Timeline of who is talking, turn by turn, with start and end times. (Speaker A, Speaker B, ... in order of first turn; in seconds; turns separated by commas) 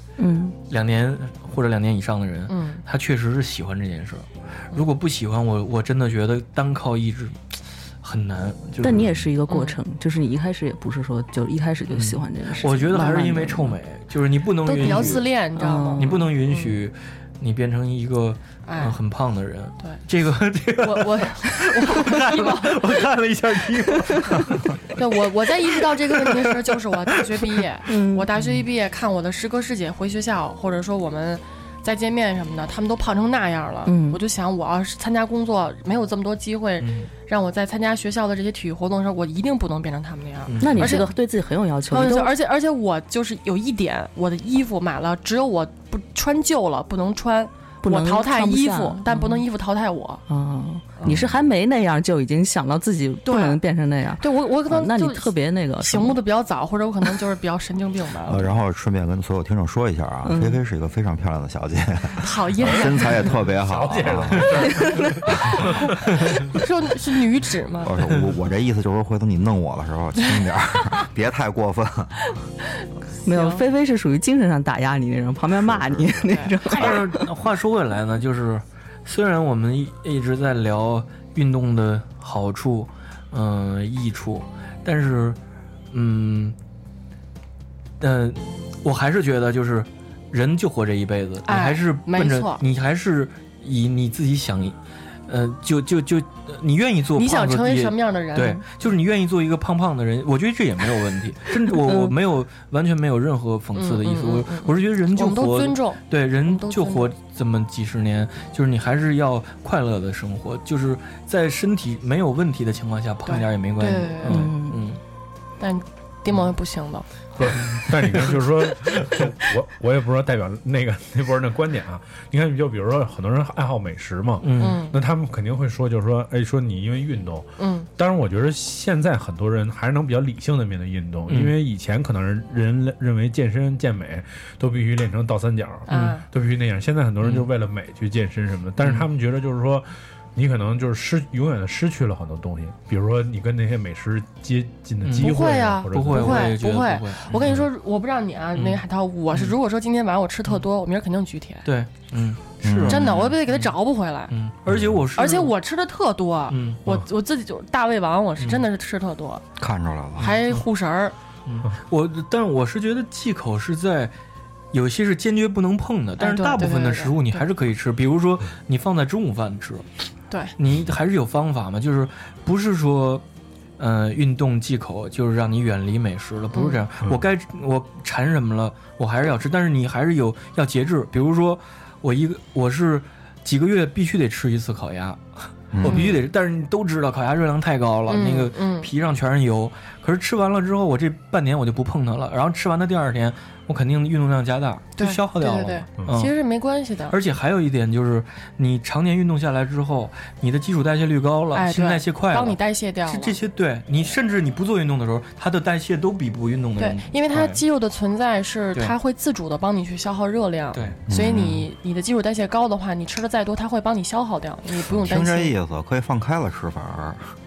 Speaker A: 0.2-0.6, Speaker B: 0.7-9.2, Speaker C: 2.5-2.8, Speaker A: 8.8-13.8, Speaker C: 9.5-9.8, Speaker B: 11.9-15.3, Speaker C: 14.6-16.7, Speaker A: 14.8-16.3, Speaker B: 16.0-24.8, Speaker C: 18.6-18.9, Speaker C: 20.8-22.8, Speaker C: 24.9-41.1, Speaker B: 26.1-26.5, Speaker A: 27.9-28.3, Speaker A: 33.9-34.2, Speaker B: 36.8-37.1, Speaker B: 40.5-41.0, Speaker A: 40.6-42.3, Speaker C: 41.9-50.2, Speaker A: 47.8-49.5, Speaker A: 50.3-56.2, Speaker D: 51.0-51.4, Speaker C: 53.2-53.6, Speaker C: 54.2-58.5, Speaker D: 58.3-64.8, Speaker A: 60.2-60.6, Speaker C: 62.2-63.3, Speaker E: 63.5-66.4, Speaker A: 64.8-65.1, Speaker C: 66.5-67.9, Speaker D: 67.8-72.1, Speaker A: 73.2-77.2, Speaker C: 73.2-73.6, Speaker D: 75.6-76.2, Speaker C: 76.3-76.9, Speaker B: 76.7-85.4, Speaker B: 85.9-86.5, Speaker B: 88.0-94.8, Speaker C: 91.5-92.6, Speaker B: 95.3-115.0, Speaker C: 97.2-98.6, Speaker A: 101.8-102.1, Speaker C: 103.8-107.1, Speaker C: 113.3-114.5, Speaker A: 114.3-114.8, Speaker C: 115.6-117.0, Speaker E: 117.4-127.5, Speaker B: 117.6-118.3, Speaker B: 124.4-124.8, Speaker C: 124.6-124.9, Speaker C: 127.6-127.9, Speaker E: 128.0-146.5, Speaker B: 131.3-131.5, Speaker C: 135.9-136.2, Speaker B: 135.9-136.2, Speaker B: 137.2-137.5, Speaker B: 138.8-139.1, Speaker B: 145.0-145.3, Speaker C: 145.2-151.7, Speaker B: 145.9-147.6, Speaker B: 148.5-148.8, Speaker B: 151.7-153.7, Speaker D: 152.6-153.0, Speaker C: 152.9-154.3, Speaker B: 154.3-155.5, Speaker E: 154.7-155.0, Speaker C: 155.2-159.4, Speaker B: 156.5-156.8, Speaker B: 158.4-158.6, Speaker D: 159.6-160.3, Speaker C: 160.2-161.1, Speaker B: 160.2-160.6, Speaker B: 161.4-164.1, Speaker B: 164.7-169.8, Speaker C: 166.2-167.4, Speaker B: 170.6-173.2, Speaker B: 173.8-196.3, Speaker D: 185.7-186.1, Speaker C: 185.8-186.2, Speaker C: 188.1-188.9, Speaker C: 195.0-197.1, Speaker B: 197.1-207.6, Speaker C: 201.5-203.4, Speaker C: 206.8-215.5, Speaker B: 210.7-211.0, Speaker D: 211.1-211.7, Speaker D: 214.9-217.3